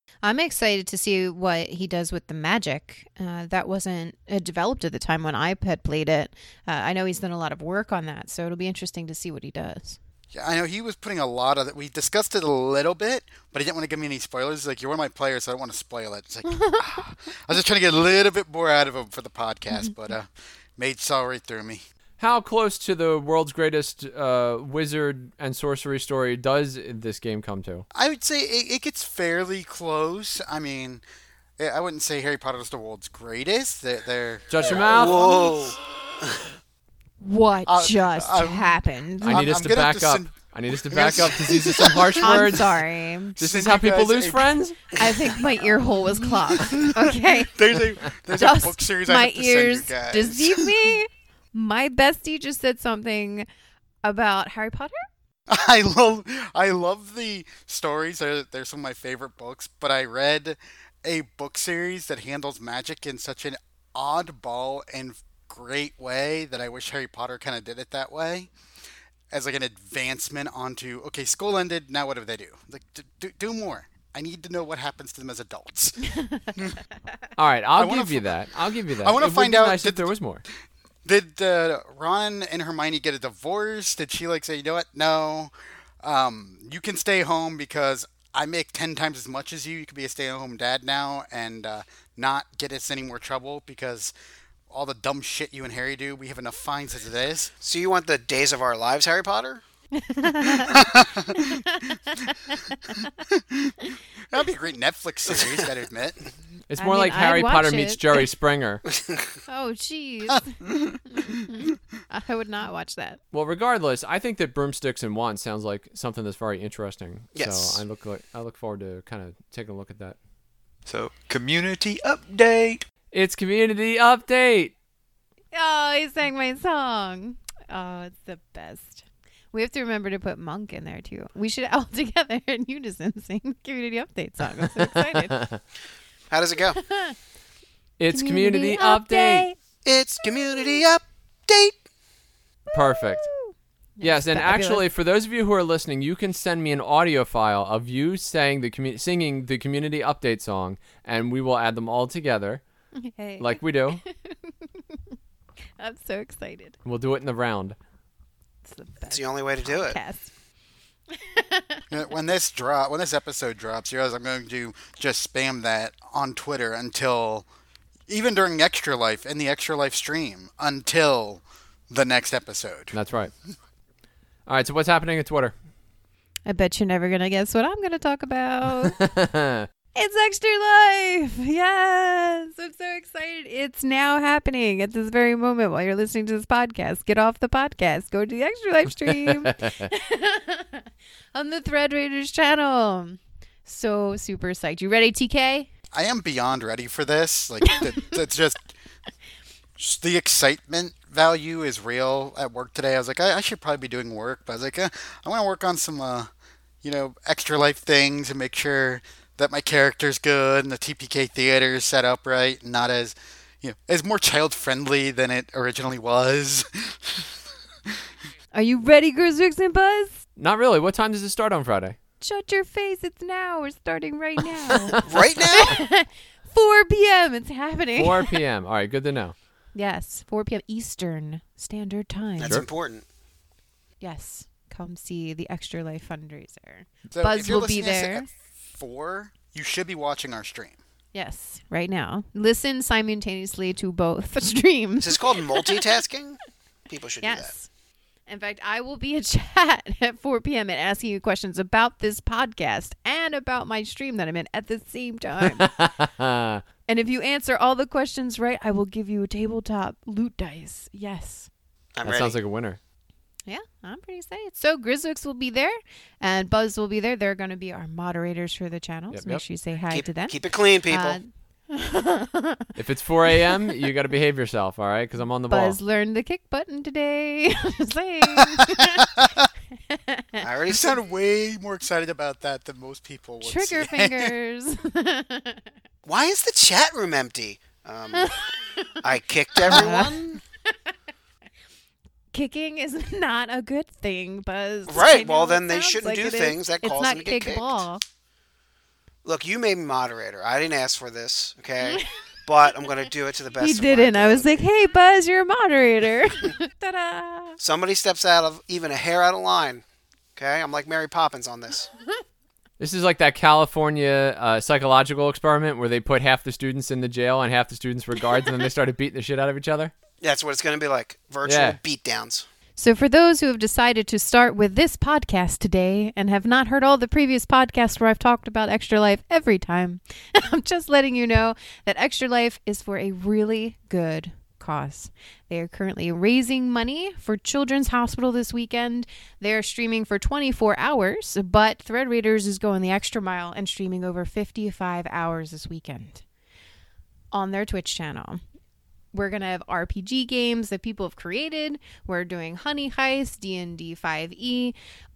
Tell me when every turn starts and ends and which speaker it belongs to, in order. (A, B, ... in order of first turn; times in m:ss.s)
0:00.2-0:10.0 A
0:10.3-0:21.8 B
0:16.5-0:16.9 A
0:22.2-0:27.8 C
0:27.9-0:31.0 B
0:31.6-0:35.5 B
0:34.5-0:35.2 C
0:34.8-0:36.4 D
0:37.2-0:39.5 A
0:37.7-0:40.3 B
0:39.2-0:42.7 C
0:40.9-0:42.5 B
0:42.2-0:43.4 A
0:43.4-0:44.6 B
0:43.4-0:44.8 C
0:45.0-0:47.7 A
0:46.2-0:50.9 B
0:48.3-0:53.5 A
0:54.0-0:55.0 A
0:55.5-1:08.5 B
1:09.3-1:16.8 B
1:17.4-1:20.4 C
1:17.8-1:18.4 B
1:18.9-1:20.1 B
1:21.0-1:34.1 B
1:34.7-1:37.5 B
1:37.6-1:39.6 D
1:40.0-1:43.0 A
1:40.5-1:41.9 B
1:43.3-1:46.3 B
1:46.7-1:48.8 C
1:46.8-1:48.2 A
1:48.9-1:49.3 D
1:49.5-1:50.6 A
1:50.3-1:51.4 B
1:51.1-1:53.2 A
1:53.3-2:00.2 C
1:57.4-1:57.8 D
2:00.9-2:02.8 E
2:03.1-2:04.7 C
2:05.5-2:15.4 A
2:14.8-2:15.6 C
2:16.3-2:16.8 D
2:16.7-2:17.2 A
2:18.0-2:19.5 C
2:18.1-2:19.6 A
2:19.8-2:21.8 D
2:22.7-2:23.3 C
2:22.7-2:24.9 A
2:24.0-2:32.6 C
2:33.0-2:34.4 A
2:33.4-2:34.0 C
2:35.8-2:36.8 A
2:36.8-2:37.8 C
2:38.6-2:40.3 A
2:39.1-2:40.0 D
2:41.1-2:41.8 A
2:41.9-2:47.5 B
2:48.1-2:53.0 B
2:52.9-2:53.3 C
2:54.5-2:55.5 C
2:56.5-2:59.0 A
2:58.8-2:59.7 C
3:00.0-3:15.7 A
3:09.0-3:09.9 C
3:15.9-3:18.7 B
3:17.7-3:18.0 A
3:19.8-3:26.3 B
3:26.8-3:37.4 B
3:38.5-3:40.2 A
3:40.4-3:42.0 C
3:42.2-3:48.4 A
3:45.0-3:45.8 D
3:48.0-3:49.4 C
3:49.7-3:52.6 A
3:52.4-3:53.0 D
3:54.0-3:58.3 A
3:57.1-4:00.8 B
4:01.1-4:05.8 A
4:05.0-4:07.5 D
4:07.2-4:07.7 A
4:08.3-4:15.7 A
4:15.5-4:16.6 C
4:16.9-4:21.5 A
4:22.0-4:22.4 D
4:22.0-4:22.8 C
4:23.5-4:32.7 A
4:29.1-4:29.4 C
4:29.9-4:31.2 D
4:32.8-4:35.8 C
4:35.5-4:39.2 A
4:38.4-4:39.5 B
4:39.9-4:40.4 A
4:40.4-4:41.0 D
4:40.7-4:44.3 B
4:43.4-4:45.7 A
4:46.1-4:48.4 D
4:49.0-4:50.4 D
4:49.6-4:50.4 A
4:49.7-4:50.0 B
4:52.3-4:58.0 A
4:54.9-4:57.8 D
4:59.2-5:04.7 D
5:01.8-5:02.1 A
5:03.6-5:07.6 A
5:07.6-5:09.8 D
5:10.4-5:11.9 D
5:12.8-5:19.9 C
5:20.2-5:22.5 D
5:21.4-5:21.8 C
5:22.8-5:46.2 A
5:47.3-5:48.4 A
5:49.1-5:54.8 A